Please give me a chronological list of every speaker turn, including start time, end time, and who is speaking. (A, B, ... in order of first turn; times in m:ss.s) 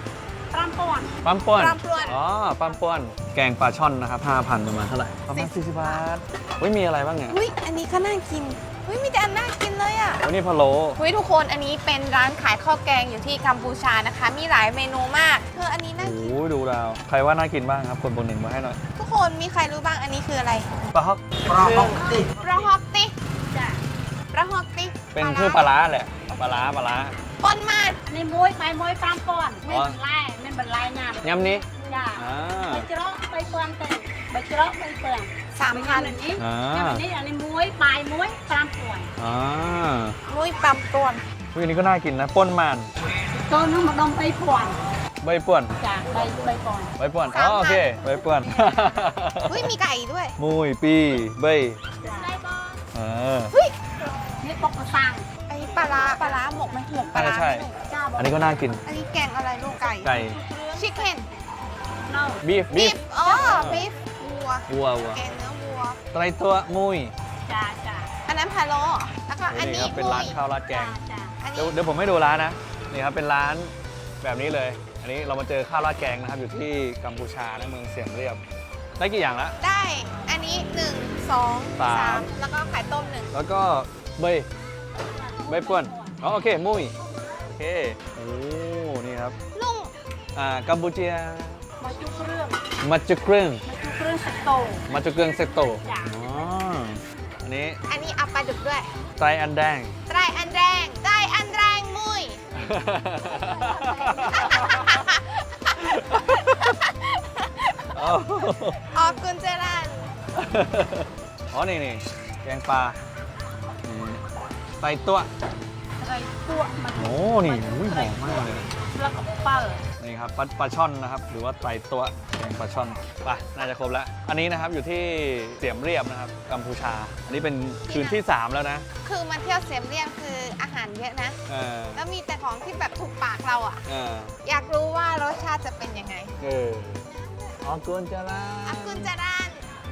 0:00.5-0:01.1 A
0:01.2-0:07.4 B
0:01.6-0:02.2 C
0:01.9-0:02.8 A
0:05.3-0:06.0 C
0:07.3-0:10.2 C
0:10.2-0:11.0 B
0:11.0-0:16.4 C
0:16.0-0:18.8 B
0:19.0-0:20.7 C
0:20.9-0:22.0 B
0:21.6-0:22.7 A
0:22.4-0:23.1 C
0:23.4-0:23.8 A
0:24.3-0:25.7 C
0:25.1-0:27.2 B
0:26.3-0:26.7 C
0:27.4-0:28.0 C
0:28.0-0:39.1 A
0:29.7-0:30.0 B
0:31.2-0:32.9 B
0:31.4-0:32.1 C
0:35.5-0:36.2 C
0:36.4-0:37.0 B
0:39.2-0:40.2 B
0:40.2-0:41.2 C
0:41.5-0:42.9 B
0:43.3-0:44.9 A
0:45.2-0:45.8 B
0:45.8-0:46.9 A
0:47.0-0:49.7 B
0:47.3-0:48.0 C
0:49.5-0:50.4 C
0:50.4-0:51.8 B
0:52.0-0:52.8 A
0:52.1-0:52.4 C
0:52.9-0:53.5 B
0:54.4-0:55.3 A
0:55.5-0:57.8 C
0:57.1-0:58.8 B
0:57.8-0:58.7 A
0:58.8-1:00.2 C
0:59.7-1:01.3 A
1:00.0-1:00.4 B
1:00.7-1:01.3 C
1:02.0-1:02.4 A
1:02.4-1:03.8 B
1:02.7-1:06.0 C
1:03.2-1:03.9 A
1:04.7-1:05.2 B
1:06.1-1:07.1 B
1:07.4-1:08.1 A
1:08.2-1:10.4 C
1:09.5-1:11.0 B
1:10.7-1:11.4 A
1:11.4-1:11.8 C
1:11.5-1:18.4 B
1:19.0-1:19.6 B
1:19.6-1:23.3 C
1:21.8-1:22.3 B
1:23.3-1:24.5 B
1:25.1-1:26.2 A
1:25.4-1:26.9 B
1:27.5-1:29.3 B
1:29.5-1:29.9 C
1:30.3-1:31.6 B
1:31.8-1:32.6 A
1:32.8-1:33.6 B
1:33.6-1:34.8 A
1:34.9-1:37.8 B
1:35.8-1:36.2 A
1:37.9-1:39.0 C
1:39.2-1:40.0 B
1:40.1-1:42.4 C
1:42.5-1:45.0 B
1:43.2-1:44.8 A
1:44.3-1:48.1 C
1:45.8-1:46.7 B
1:47.9-1:49.1 B
1:48.9-1:50.1 C
1:50.3-1:53.0 B
1:53.8-1:54.2 B
1:54.8-1:55.3 B
1:56.0-1:59.8 A
1:56.9-1:58.7 B
2:00.0-2:08.9 B
2:07.8-2:08.2 C
2:09.0-2:11.4 C
2:11.5-2:12.0 B
2:11.9-2:13.8 C
2:13.8-2:14.3 B
2:14.4-2:16.3 C
2:16.4-2:17.1 B
2:17.0-2:17.6 C
2:17.6-2:19.1 B
2:18.6-2:19.7 C